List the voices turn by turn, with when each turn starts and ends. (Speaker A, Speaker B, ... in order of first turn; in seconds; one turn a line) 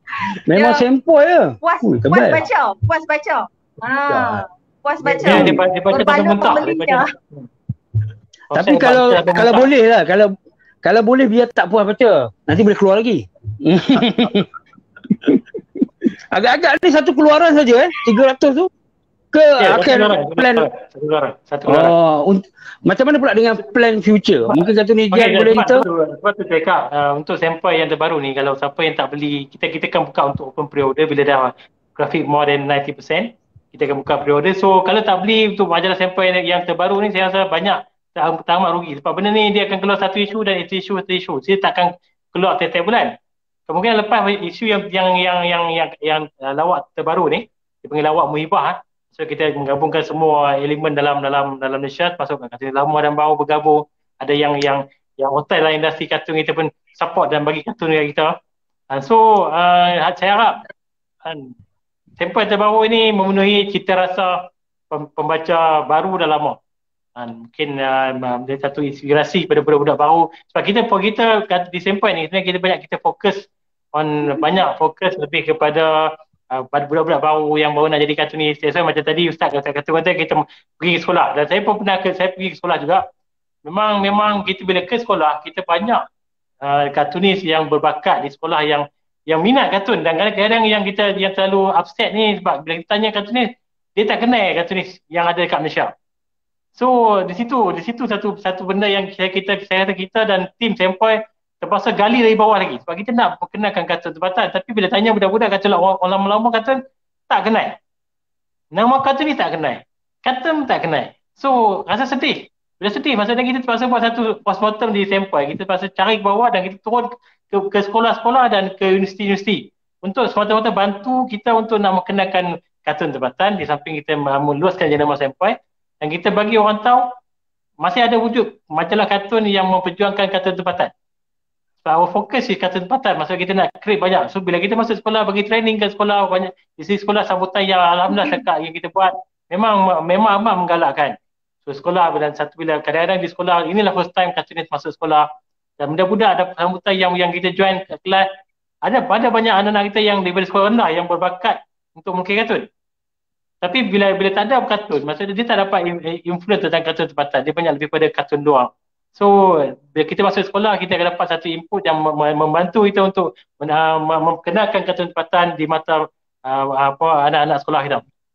Speaker A: 0.2-0.8
Speaker B: 0.4-2.5
Speaker A: 1.6-7.0
Speaker B: 4.1-4.4
Speaker B: 5.2-5.5
Speaker C: 5.2-7.5
Speaker C: 8.5-9.7
Speaker B: 8.5-10.3
Speaker B: 10.8-14.5
Speaker B: 15.1-15.4
Speaker B: 16.3-18.7
Speaker B: 19.3-20.6
Speaker C: 19.6-21.9
Speaker B: 21.7-25.8
Speaker C: 24.5-43.1
Speaker C: 43.7-58.3
Speaker C: 58.9-60.6
Speaker C: 61.2-61.5
Speaker C: 62.2-66.6
Speaker C: 67.2-83.0
Speaker C: 83.6-86.0
Speaker C: 86.6-95.9
Speaker C: 96.7-107.8
Speaker C: 108.7-127.0
Speaker C: 127.8-130.9
Speaker C: 131.8-145.2
Speaker A: 138.1-138.4
Speaker C: 145.8-148.2
Speaker C: 148.8-152.7
Speaker C: 153.6-168.0